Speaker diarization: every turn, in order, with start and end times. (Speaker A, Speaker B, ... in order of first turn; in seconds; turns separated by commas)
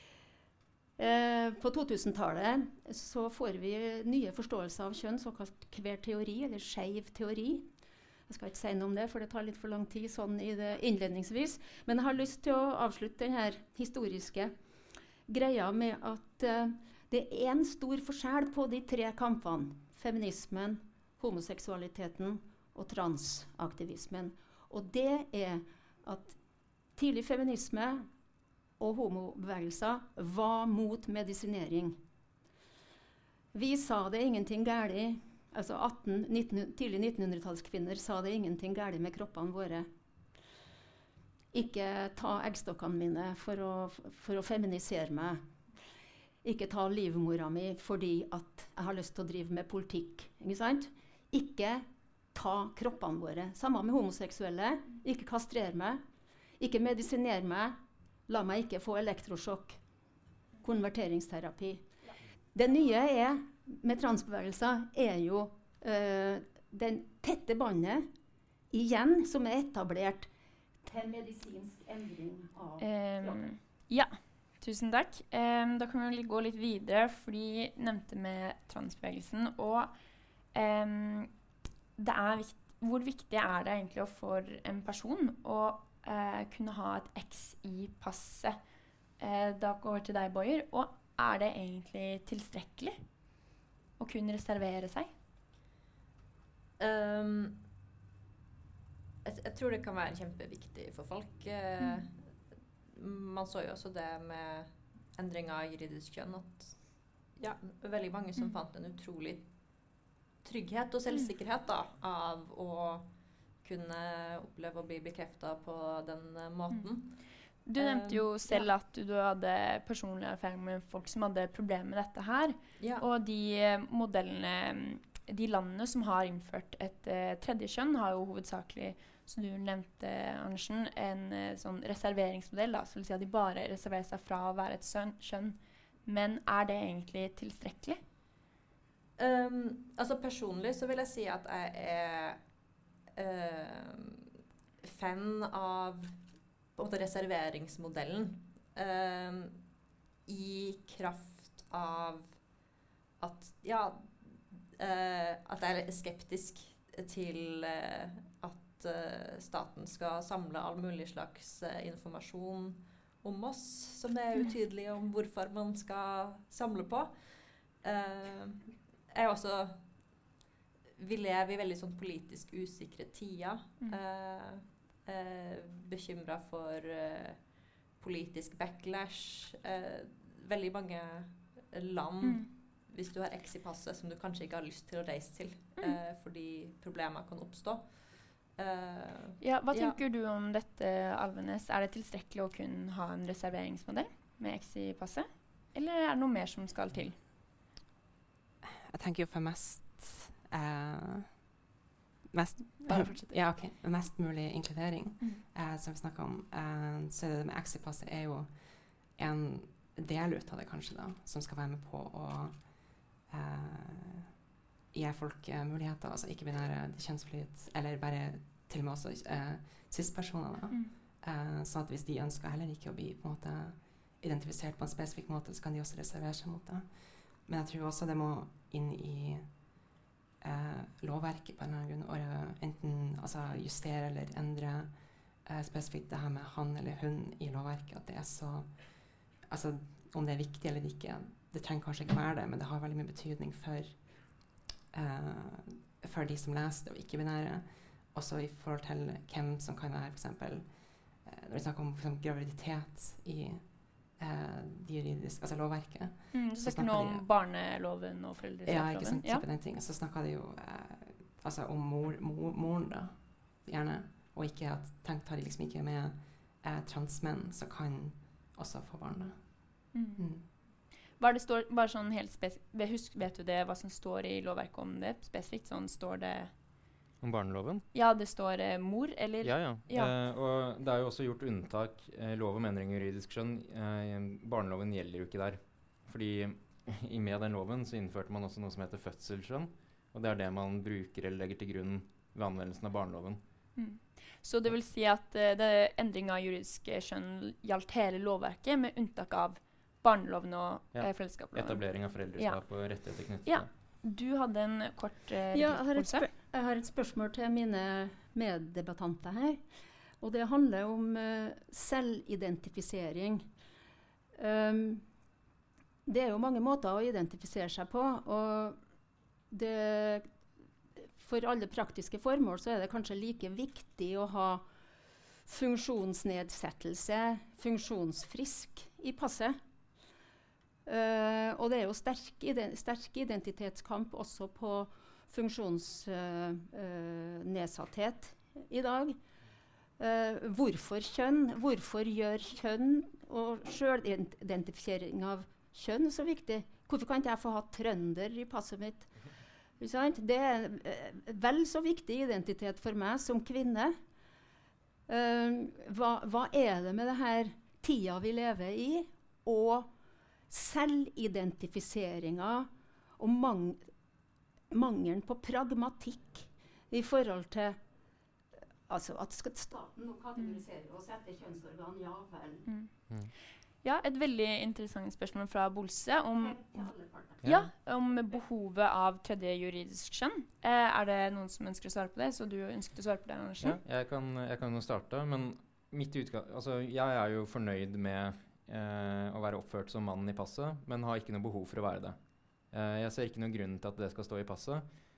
Speaker A: 1.0-7.7, Speaker A: 8.3-14.5, Speaker A: 15.3-26.4, Speaker A: 27.0-28.1, Speaker A: 28.8-32.0, Speaker A: 33.5-39.9, Speaker A: 41.5-45.4, Speaker A: 46.4-56.0, Speaker A: 56.6-57.8, Speaker A: 58.3-59.8, Speaker A: 60.6-61.8, Speaker A: 62.5-68.1, Speaker A: 68.7-70.3, Speaker A: 70.8-73.5, Speaker B: 72.8-79.9, Speaker B: 80.5-81.3, Speaker B: 82.0-88.6, Speaker B: 89.2-93.0, Speaker B: 94.0-95.1, Speaker C: 96.8-97.6, Speaker C: 99.2-102.2, Speaker C: 102.9-106.8, Speaker C: 107.4-109.5, Speaker C: 110.4-113.1, Speaker C: 113.6-118.7, Speaker B: 117.7-138.0, Speaker C: 122.8-123.1, Speaker C: 139.2-142.4, Speaker C: 143.2-144.3, Speaker C: 144.8-146.2, Speaker C: 146.8-149.6, Speaker C: 150.3-152.4, Speaker C: 153.2-167.2, Speaker C: 167.8-169.8, Speaker C: 171.0-177.4, Speaker C: 177.9-190.0, Speaker B: 189.4-197.2, Speaker D: 198.6-201.4, Speaker D: 202.3-208.6, Speaker B: 202.8-203.3, Speaker D: 209.2-212.7, Speaker D: 213.2-214.3, Speaker D: 214.9-226.9, Speaker D: 227.4-229.5, Speaker D: 230.4-234.9, Speaker D: 235.4-238.9, Speaker D: 239.4-257.3, Speaker B: 256.3-259.4, Speaker D: 258.7-270.5, Speaker B: 269.9-270.7, Speaker B: 271.2-276.5, Speaker E: 277.2-277.9, Speaker B: 277.9-280.1, Speaker E: 279.4-293.4, Speaker B: 293.8-301.8, Speaker E: 300.9-303.7, Speaker B: 303.5-306.3, Speaker A: 305.5-309.6, Speaker A: 310.2-313.5, Speaker A: 314.4-315.0, Speaker A: 316.1-318.8, Speaker A: 319.5-320.3, Speaker A: 321.2-324.6, Speaker A: 325.5-329.6, Speaker A: 330.9-339.2, Speaker A: 340.0-349.1, Speaker A: 349.8-354.0, Speaker A: 355.1-359.9, Speaker A: 360.5-362.7, Speaker A: 363.2-363.9, Speaker A: 364.7-367.8, Speaker A: 368.9-372.7, Speaker B: 372.7-372.9, Speaker B: 373.8-376.6, Speaker A: 376.4-377.4, Speaker E: 377.4-377.7, Speaker B: 377.4-383.8, Speaker E: 383.6-392.2, Speaker E: 392.7-394.8